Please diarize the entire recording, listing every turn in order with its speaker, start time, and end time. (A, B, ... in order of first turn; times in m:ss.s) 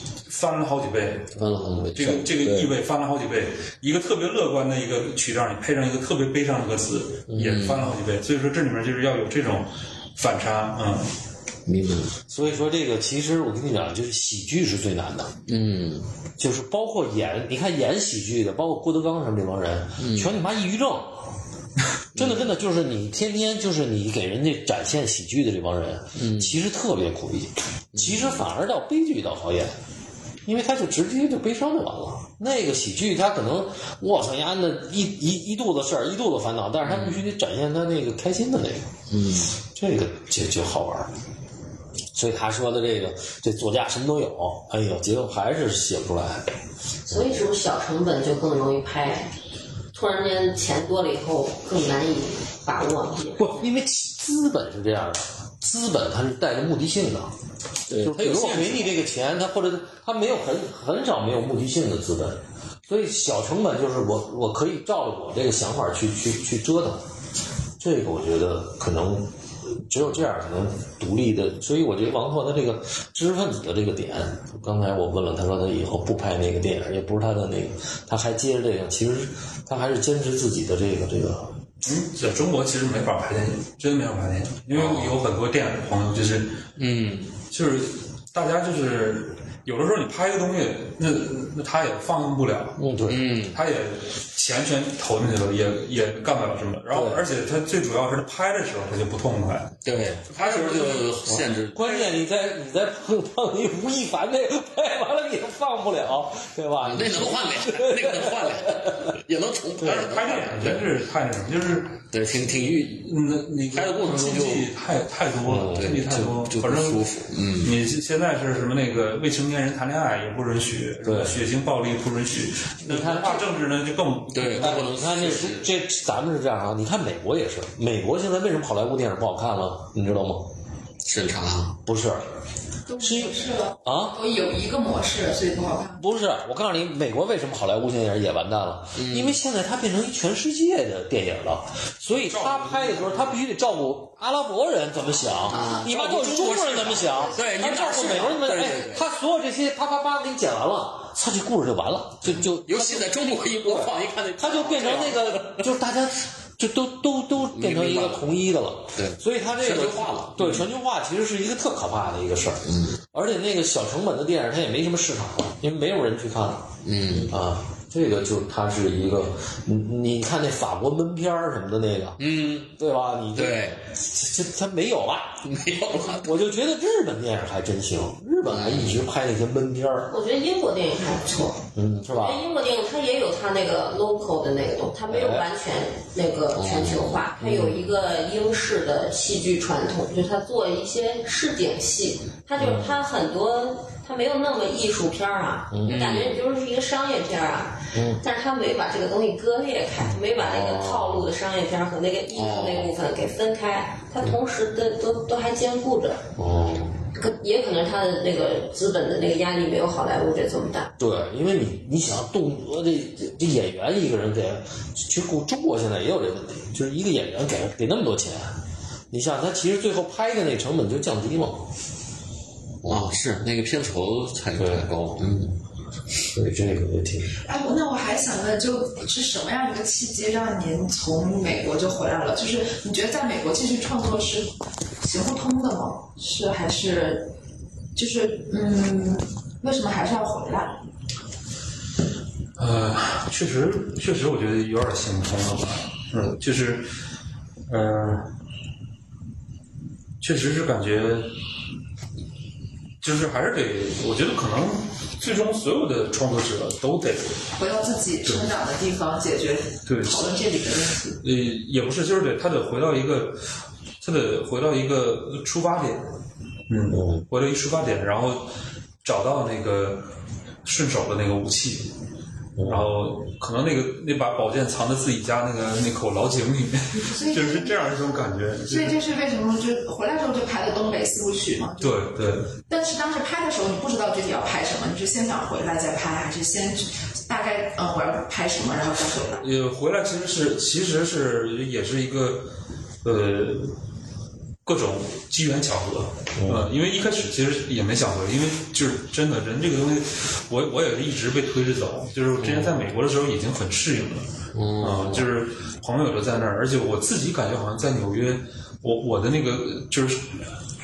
0:00.3-0:01.3 A
0:01.3-0:02.8 B
0:01.9-0:11.1 A
0:07.3-0:07.9 B
0:11.7-0:12.2 B
0:12.3-0:15.4 C
0:15.5-0:16.1 B
0:16.4-0:21.2 C
0:20.0-0:20.4 B
0:22.2-0:22.5 B
0:22.2-0:29.8 C
0:26.2-0:26.6 B
0:27.9-0:28.4 B
0:30.4-0:38.9 C
0:36.8-0:37.2 B
0:39.1-0:39.6 B
0:39.6-0:41.1 C
0:42.1-0:46.5 C
0:47.1-0:49.3 D
0:47.1-0:47.5 C
0:49.9-0:53.5 D
0:53.3-0:57.3 C
0:57.9-0:59.0 B
0:58.0-1:07.0 C
1:07.8-1:21.6 C
1:21.8-1:26.6 A
1:24.8-1:25.1 B
1:26.8-1:27.4 B
1:27.5-1:32.8 A
1:32.8-1:33.2 C
1:33.1-1:33.6 B
1:33.5-1:41.2 A
1:36.9-1:37.2 C
1:39.8-1:42.2 B
1:41.3-1:49.2 C
1:46.8-1:50.9 B
1:49.8-1:52.0 A
1:52.1-1:53.1 B
1:52.8-1:57.0 A
1:53.7-1:54.7 B
1:55.5-1:56.0 C
1:55.6-1:57.8 B
1:57.6-2:04.8 A
2:01.0-2:01.5 C
2:02.8-2:03.5 C
2:04.3-2:05.7 B
2:04.6-2:10.5 C
2:11.0-2:11.8 B
2:11.9-2:12.2 C
2:12.9-2:16.1 E
2:13.0-2:14.2 C
2:16.0-2:33.1 C
2:19.0-2:19.4 B
2:22.2-2:23.3 A
2:25.5-2:29.0 B
2:32.2-2:35.7 B
2:33.6-2:55.4 C
2:37.5-2:38.4 B
2:39.0-2:40.7 B
2:42.7-2:43.0 B
2:46.8-2:47.4 B
2:52.2-2:52.7 B
2:53.4-2:53.8 B
2:55.4-2:56.4 B
2:56.2-3:00.1 C
2:58.5-2:59.1 B
3:00.1-3:26.2 D
3:01.8-3:02.4 C
3:05.1-3:05.5 C
3:06.6-3:07.2 B
3:07.4-3:07.9 C
3:12.6-3:13.0 C
3:15.7-3:16.1 C
3:15.9-3:16.4 B
3:17.9-3:18.2 C
3:20.1-3:21.3 C
3:22.4-3:22.9 B
3:26.4-3:27.0 C
3:27.1-3:30.9 D
3:31.0-3:38.6 C
3:39.1-3:41.7 C
3:42.8-3:45.6 B
3:44.6-3:44.9 C
3:46.2-3:47.4 C
3:47.4-3:57.3 E
3:58.0-4:00.8 E
4:02.6-4:06.9 A
4:07.7-4:08.3 A
4:10.2-4:11.3 A
4:13.0-4:17.4 A
4:17.6-4:21.2 E
4:18.2-4:18.5 A
4:19.9-4:20.3 A
4:21.2-4:23.5 A
4:24.0-4:26.1 A
4:26.7-4:28.5 A
4:26.9-4:27.2 C
4:29.0-4:30.1 A
4:30.6-4:31.9 A
4:32.6-4:33.0 C
4:32.6-4:39.0 A
4:37.1-4:37.9 E
4:38.7-4:42.1 E
4:41.8-4:42.6 A
4:42.7-4:49.4 E
4:49.4-4:52.5 A
4:53.0-4:53.8 A
4:54.6-5:04.3 A
4:56.4-4:56.7 C
5:04.5-5:05.3 B
5:04.8-5:10.4 A